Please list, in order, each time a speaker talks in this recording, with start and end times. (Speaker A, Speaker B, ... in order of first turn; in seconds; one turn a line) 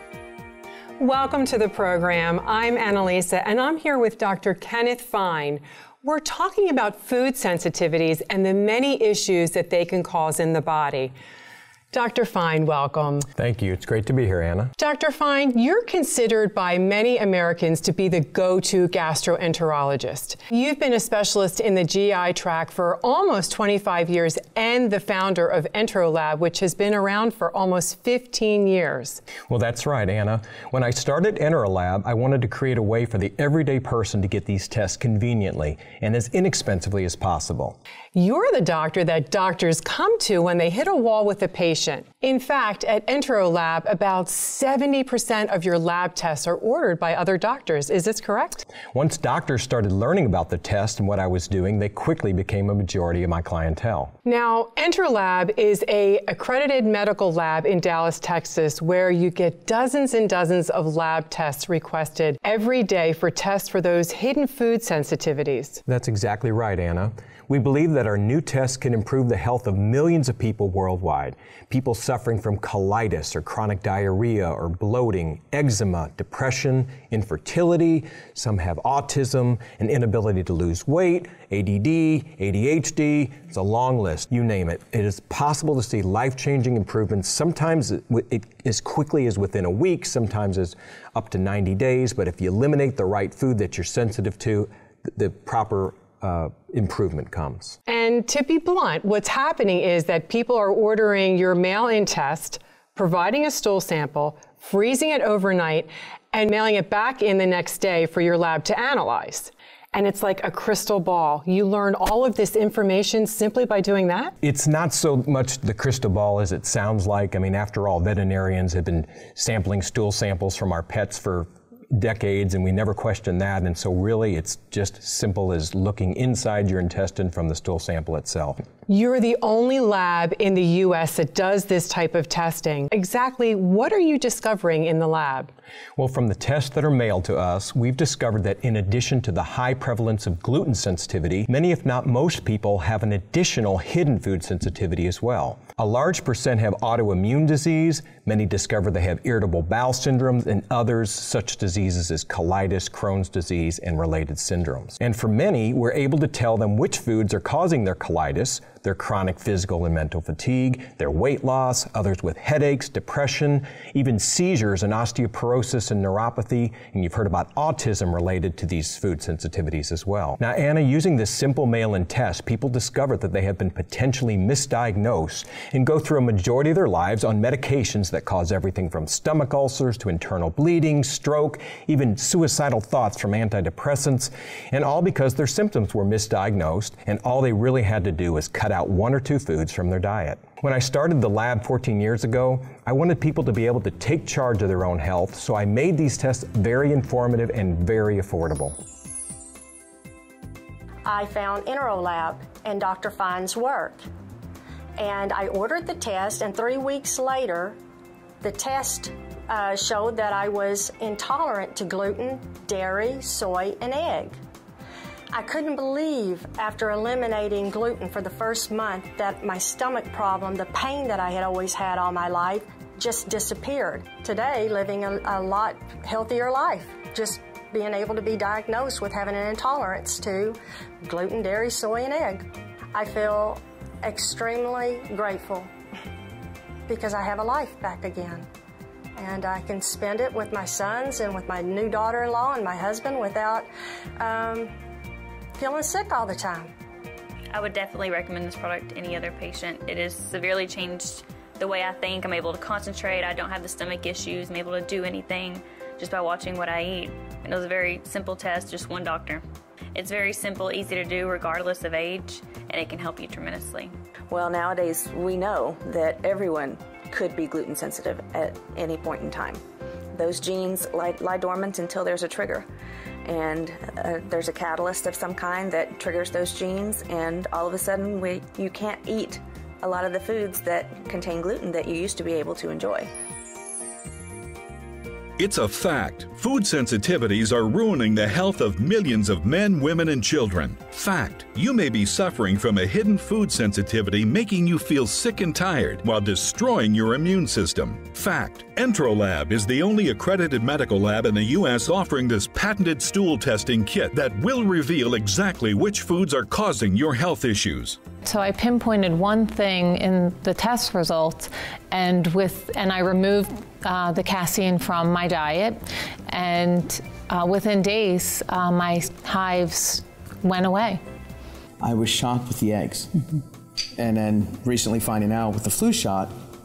Speaker A: 1.0-11.1
Speaker A: 11.9-13.3
Speaker B: 13.4-14.7
Speaker A: 14.8-29.2
Speaker B: 29.4-37.8
Speaker A: 38.1-48.6
Speaker B: 48.9-54.1
Speaker A: 54.2-65.8
Speaker B: 65.9-97.8
Speaker A: 97.9-114.3
Speaker B: 114.4-128.6
Speaker A: 128.9-135.5
Speaker B: 136.0-198.8
Speaker C: 201.1-204.0
Speaker C: 205.0-207.8
Speaker C: 208.4-214.4
Speaker C: 215.3-235.7
Speaker C: 236.9-238.5
Speaker C: 239.2-244.7
Speaker C: 245.6-246.7
Speaker D: 247.5-259.4
Speaker D: 259.9-263.9
Speaker E: 264.3-269.6
Speaker E: 270.1-272.7
Speaker E: 273.2-283.1
Speaker F: 285.4-308.0
Speaker G: 308.2-321.0
Speaker H: 321.8-323.1
Speaker H: 324.0-326.3